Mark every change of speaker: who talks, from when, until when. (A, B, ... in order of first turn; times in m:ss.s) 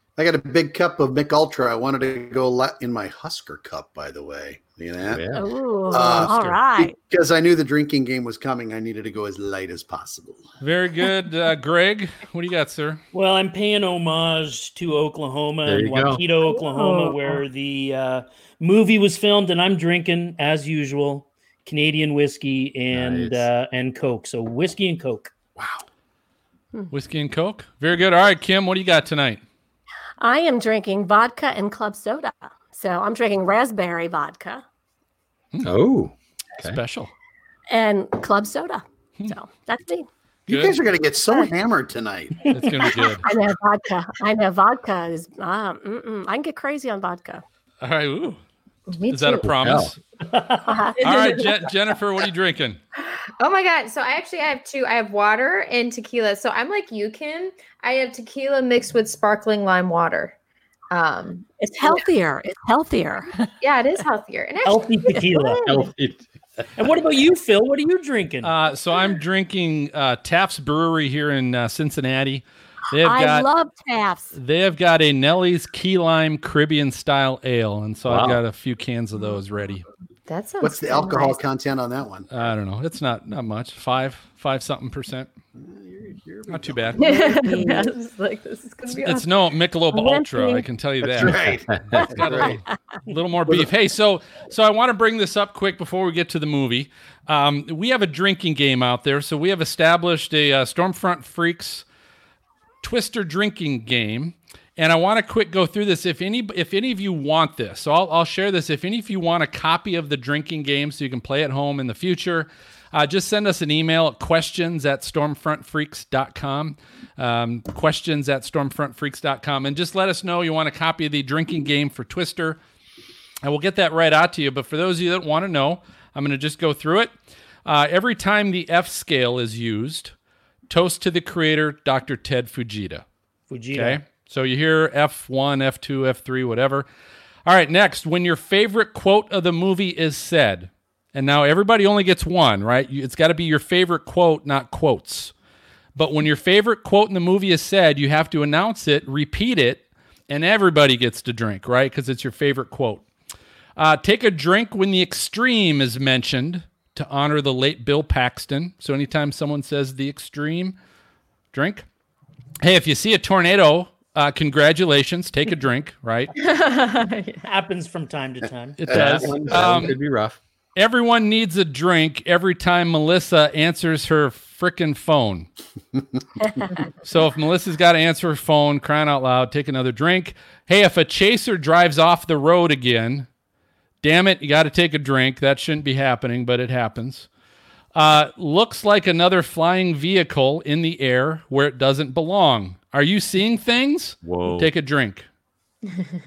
0:00.2-0:05.2 A
0:05.0-0:05.4 B
0:05.3-0:06.9 C
0:05.9-0:10.4 A
0:06.1-0:06.6 B
0:10.6-0:13.0 D
0:13.1-0:25.3 E
0:15.6-0:16.2 B
0:16.5-0:17.4 C
0:22.9-0:23.5 B
0:25.6-0:25.8 A
0:26.9-0:29.4 D
0:30.2-0:34.6 C
0:35.6-0:36.8 B
0:36.6-0:37.1 D
0:37.7-0:40.1 C
0:40.5-0:40.8 D
0:40.5-0:42.9 A
0:42.5-0:43.2 D
0:43.2-0:47.4 C
0:47.8-0:48.4 D
0:48.9-0:49.5 F
0:49.1-0:50.0 D
0:49.5-0:49.9 B
0:50.3-0:50.9 E
0:50.7-0:51.0 C
0:51.0-0:51.6 F
0:51.0-0:52.8 D
0:53.2-1:00.3 F
1:00.9-1:02.0 F
1:01.6-1:03.5 C
1:03.6-1:05.9 F
1:04.6-1:05.7 E
1:05.6-1:06.2 B
1:06.8-1:08.5 E
1:08.4-1:13.5 D
1:13.0-1:14.3 C
1:14.3-1:19.9 D
1:18.1-1:18.4 B
1:20.3-1:21.4 F
1:20.6-1:22.5 A
1:22.3-1:25.3 D
1:25.6-1:27.0 A
1:26.5-1:27.0 D
1:27.0-1:29.3 F
1:27.0-1:27.9 C
1:28.9-1:41.8 D
1:29.9-1:30.7 C
1:31.0-1:32.5 A
1:31.4-1:32.6 B
1:42.8-2:02.6 D
2:03.4-2:07.1 D
2:07.6-2:10.1 D
2:10.7-2:13.0 D
2:13.5-2:14.0 E
2:13.7-2:16.9 D
2:17.4-2:25.3 D
2:26.0-2:33.0 D
2:33.8-2:40.8 D
2:41.5-2:41.9 D
2:42.6-2:46.3 D
2:46.4-2:47.5 F
2:47.4-2:48.9 E
2:48.8-2:50.0 D
2:48.9-2:50.4 B
2:48.9-2:49.8 A
2:50.8-2:55.5 D
2:57.0-3:03.3 D
3:04.0-3:07.3 D
3:07.9-3:15.2 D
3:14.2-3:14.7 B